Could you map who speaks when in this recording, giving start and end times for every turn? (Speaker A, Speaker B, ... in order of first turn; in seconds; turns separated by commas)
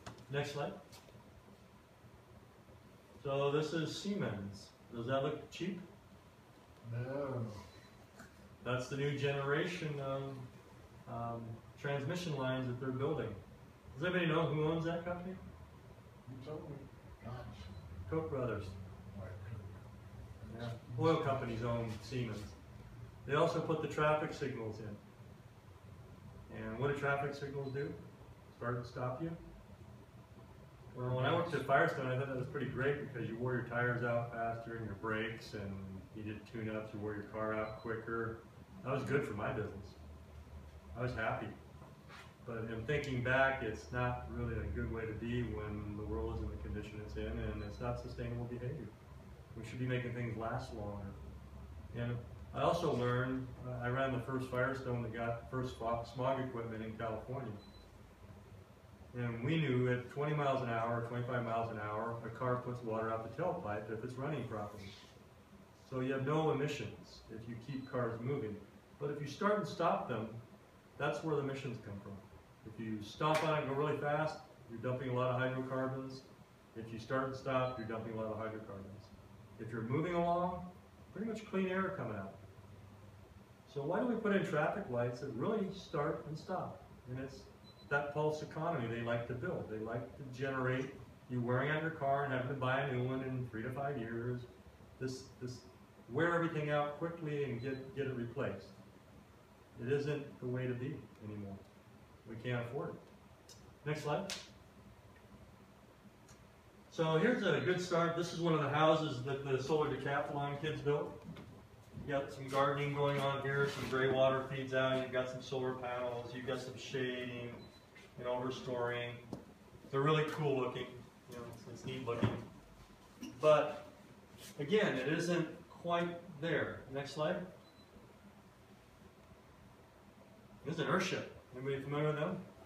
Speaker A: 0.3-0.8, Speaker A: 3.2-5.8, Speaker B: 6.8-7.7, Speaker A: 8.6-10.5, Speaker A: 11.1-13.4, Speaker A: 13.9-15.4, Speaker B: 16.2-17.8, Speaker A: 18.1-18.8, Speaker B: 19.1-19.9, Speaker B: 20.4-21.4, Speaker A: 20.5-22.5, Speaker A: 23.2-25.0, Speaker A: 26.5-28.0, Speaker A: 28.5-29.4, Speaker A: 30.9-40.0, Speaker B: 31.0-31.6, Speaker A: 40.9-41.6, Speaker A: 42.4-48.9, Speaker A: 49.5-51.2, Speaker A: 51.9-57.6, Speaker A: 59.1-65.0, Speaker A: 65.8-70.4, Speaker A: 71.0-82.4, Speaker A: 83.7-98.7, Speaker A: 99.8-101.6, Speaker A: 102.2-103.0, Speaker A: 103.8-104.5, Speaker A: 106.9-111.2, Speaker A: 112.0-117.6, Speaker A: 118.2-119.2, Speaker A: 119.9-122.4, Speaker A: 123.3-123.9, Speaker A: 124.6-127.5, Speaker A: 130.6-132.4